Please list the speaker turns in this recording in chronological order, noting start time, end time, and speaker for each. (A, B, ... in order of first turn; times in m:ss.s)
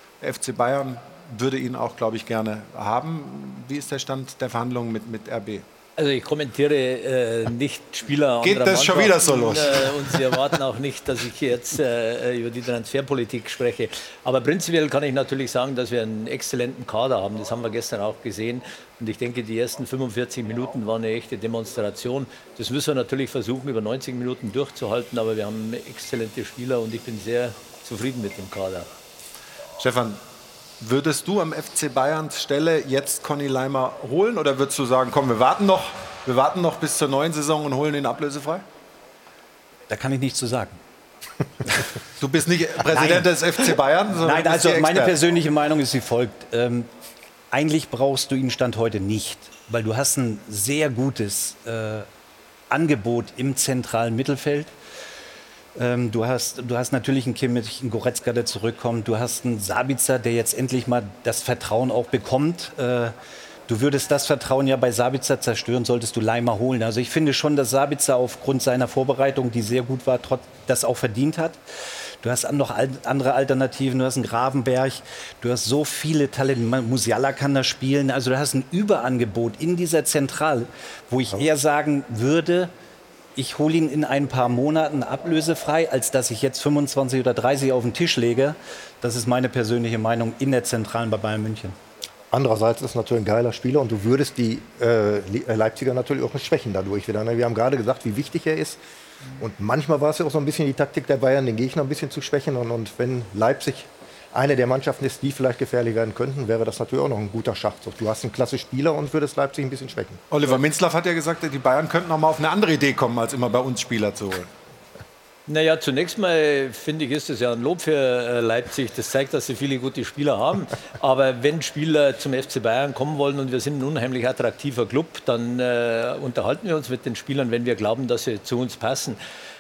0:00.2-0:05.6 A
0:06.0-0:28.9 B
0:08.4-0:10.2 A
0:29.8-0:30.2 A
0:30.8-0:38.6 A
0:39.9-0:40.8 C
0:42.2-0:45.1 A
0:42.8-0:43.4 C
0:44.1-0:46.9 C
0:47.5-0:52.1 C
0:52.7-0:54.7 C
0:55.8-1:03.1 C
1:03.7-1:11.6 C
1:12.2-1:22.7 C
1:23.3-1:31.8 C
1:32.3-1:38.8 D
1:39.4-1:50.2 D
1:50.3-1:54.5 A
1:55.5-2:09.2 B